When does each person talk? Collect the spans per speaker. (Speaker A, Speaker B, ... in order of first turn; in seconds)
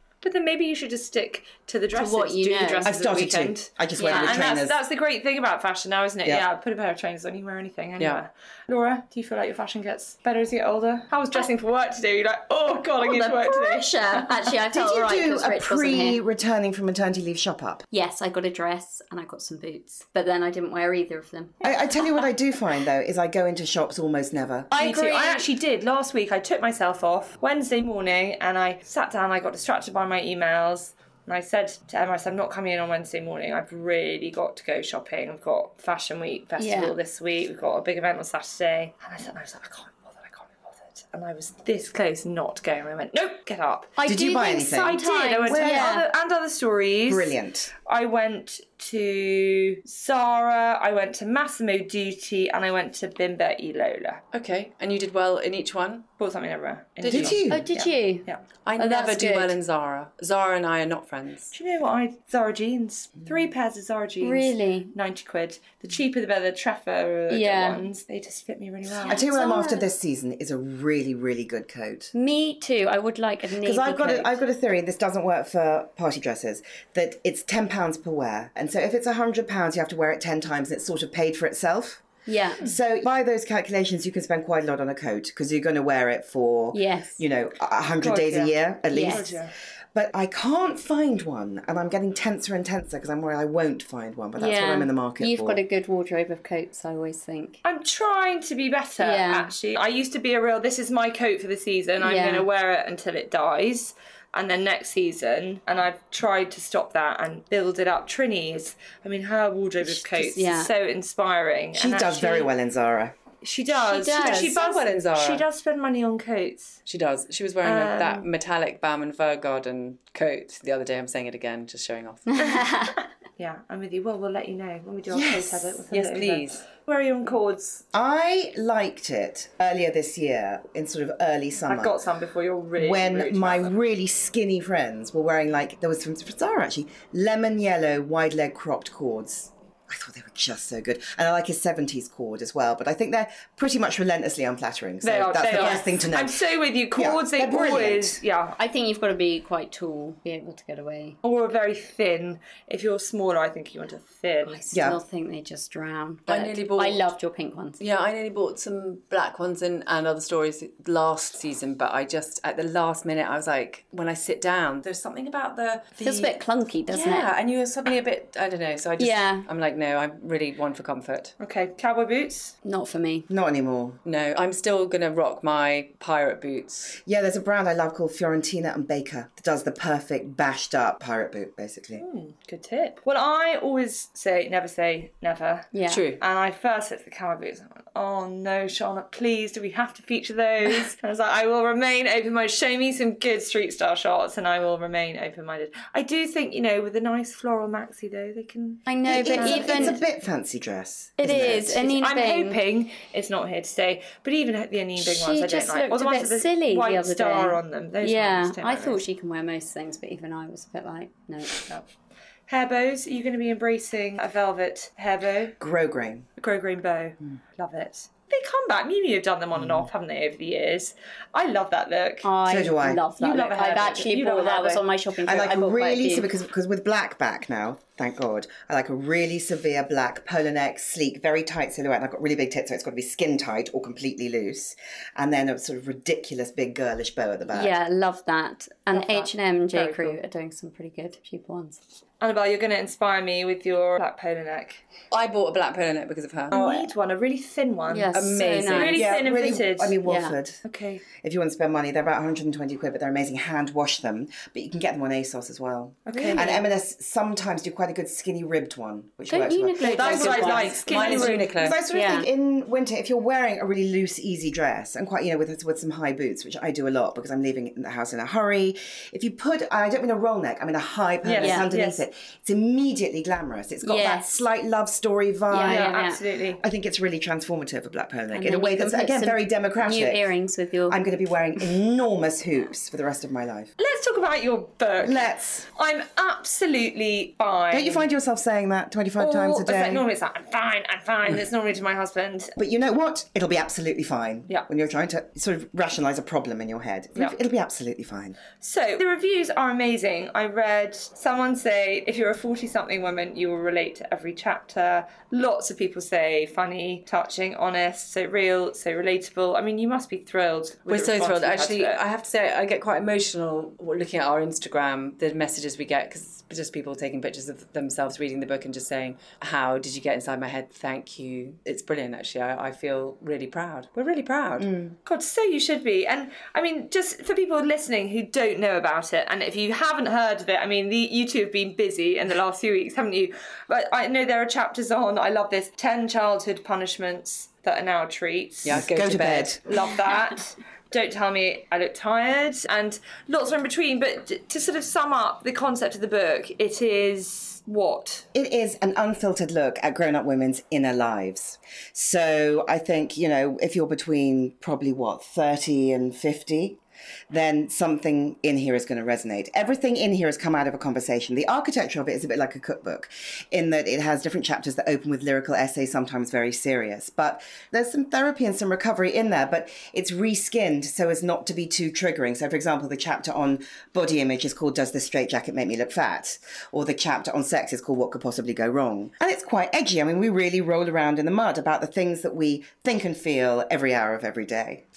Speaker A: 0.2-14.2, 24.7-44.1, 44.8-54.2, 56.2-58.4, 61.5-69.2, 88.0-89.5, 97.6-112.5, 113.4-116.8, 117.6-118.3, 122.4-122.8, 123.4-127.8, 131.7-133.7, 145.0-148.6, 151.2-154.6, 171.4-172.5, 182.0-200.0, 201.5-209.0, 211.6-211.8, 212.5-215.6, 216.4-222.3, 223.2-224.8, 238.9-240.2, 242.2-244.8, 246.5-248.1, 248.7-250.0, 250.6-251.0, 256.1-256.5, 259.8-261.5, 271.2-272.0, 275.7-276.6, 283.8-288.1, 289.2-292.5, 298.6-312.0, 325.0-338.8, 339.7-348.2
Speaker B: 1.9-2.9, 4.0-4.5, 13.0-16.2, 17.9-21.6, 24.8-25.4, 36.6-36.9, 44.0-46.0, 57.5-59.5, 64.2-64.9, 67.3-67.9, 69.0-69.9, 72.1-74.4, 82.3-82.6, 86.7-87.2, 88.9-89.2, 94.3-97.6, 99.0-99.5, 102.0-102.5, 109.8-110.7, 113.7-114.6, 122.4-122.9, 148.6-151.2, 154.4-157.8, 166.0-167.3, 169.0-169.5, 172.6-173.3, 185.7-186.0, 198.8-200.0, 201.2-202.6, 205.0-211.6, 222.2-226.3, 237.5-241.8, 247.9-249.0, 250.0-250.4, 256.1-256.7, 259.3-262.3, 271.4-271.7, 273.8-274.4, 275.5-276.2, 278.3-281.0
Speaker C: 2.8-4.8, 14.7-17.8, 21.6-25.4, 44.0-46.0, 47.1-47.7, 57.0-57.7, 69.0-72.1, 73.6-82.0, 82.6-95.6, 111.7-113.2, 125.1-125.8, 127.9-132.0, 132.7-146.4, 146.9-148.2, 154.7-155.0, 173.3-174.0, 177.0-182.0, 199.1-201.8, 215.6-216.3, 219.6-219.9, 222.4-223.1, 225.2-237.8, 248.8-250.6, 251.2-260.3, 261.5-276.0, 276.6-280.3, 280.9-283.7, 285.0-285.7, 287.7-290.0, 292.6-298.4, 324.6-325.0, 338.7-339.7, 348.3-384.8
Speaker D: 54.3-56.1, 57.0-57.4, 58.6-61.5, 114.3-115.4, 116.9-122.6, 125.9-126.6, 156.3-157.1, 157.8-166.3, 166.9-171.3, 174.0-177.0, 185.9-186.2, 245.1-246.9, 248.1-249.1, 259.8-261.8, 310.9-324.7, 338.6-339.7